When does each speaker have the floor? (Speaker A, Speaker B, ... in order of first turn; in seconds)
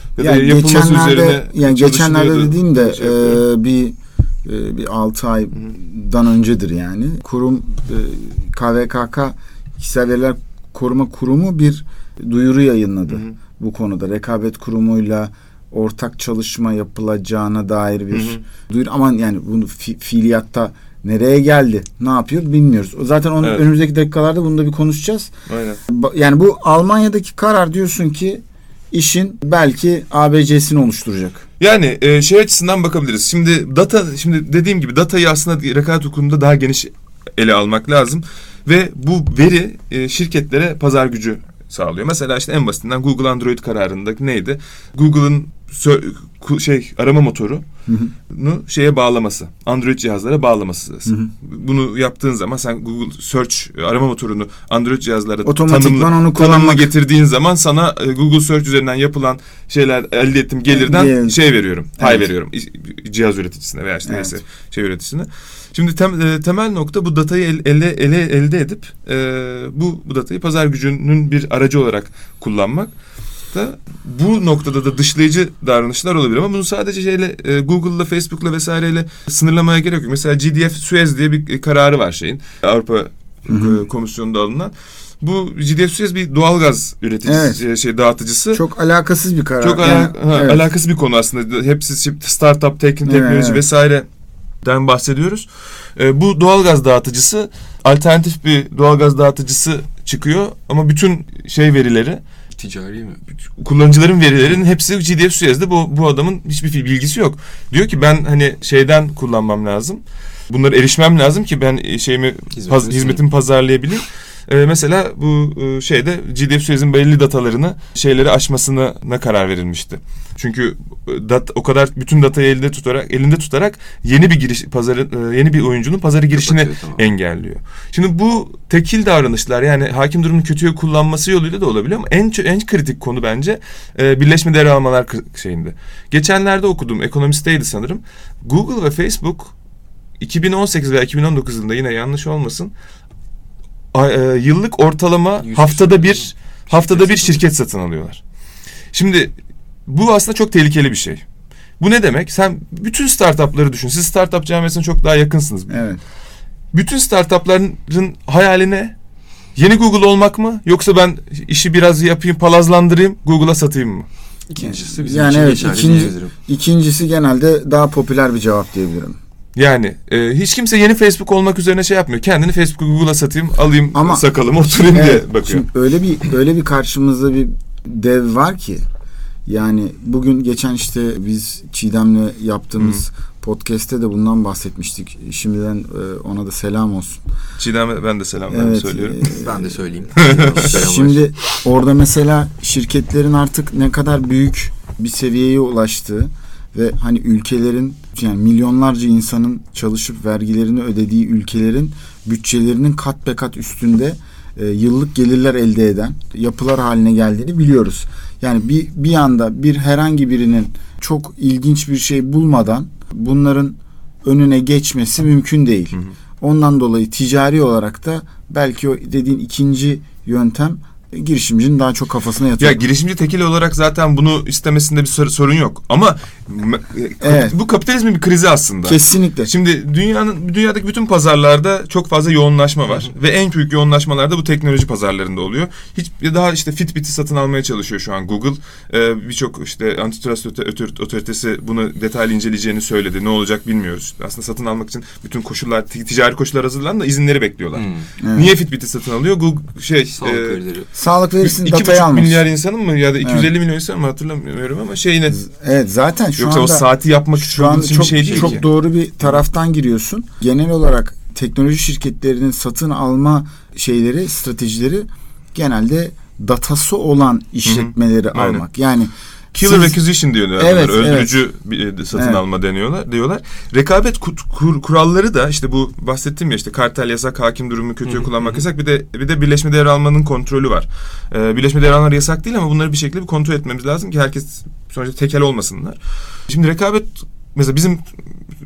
Speaker A: 0.1-3.4, 13.1-13.3, 18.1-18.4, 25.5-25.8, 31.6-47.6, 48.3-72.9, 73.5-88.6, 89.6-94.0, 94.6-102.2, 103.6-139.5, 140.2-142.7, 143.9-148.2, 148.9-149.3, 149.9-151.2, 151.8-155.8, 156.7-158.9, 159.6-164.1, 169.6-175.6, 187.6-189.4, 190.2-190.8, 222.6-250.6, 251.4-255.3, 256.4-258.6, 267.6-268.6, 269.6-288.0
Speaker B: 0.2-25.3, 25.9-31.4, 47.9-48.1, 55.4-56.9, 60.7-61.4, 62.0-62.3, 64.0-64.3, 83.5-83.8, 87.2-87.6, 88.5-90.7, 93.0-93.6, 155.7-156.0, 164.6-169.2, 173.9-174.2, 174.8-178.8, 179.4-187.2, 188.5-189.7, 190.6-222.8, 227.2-227.5, 228.8-229.5, 248.2-248.5, 250.9-252.4, 253.2-253.5, 255.3-270.0, 270.6-271.4, 272.1-272.4
Speaker C: 102.5-103.2, 112.5-113.2, 126.3-127.1, 145.4-147.4, 164.5-166.3, 189.3-191.2, 247.7-248.1, 250.1-250.9, 258.3-258.6, 278.1-278.6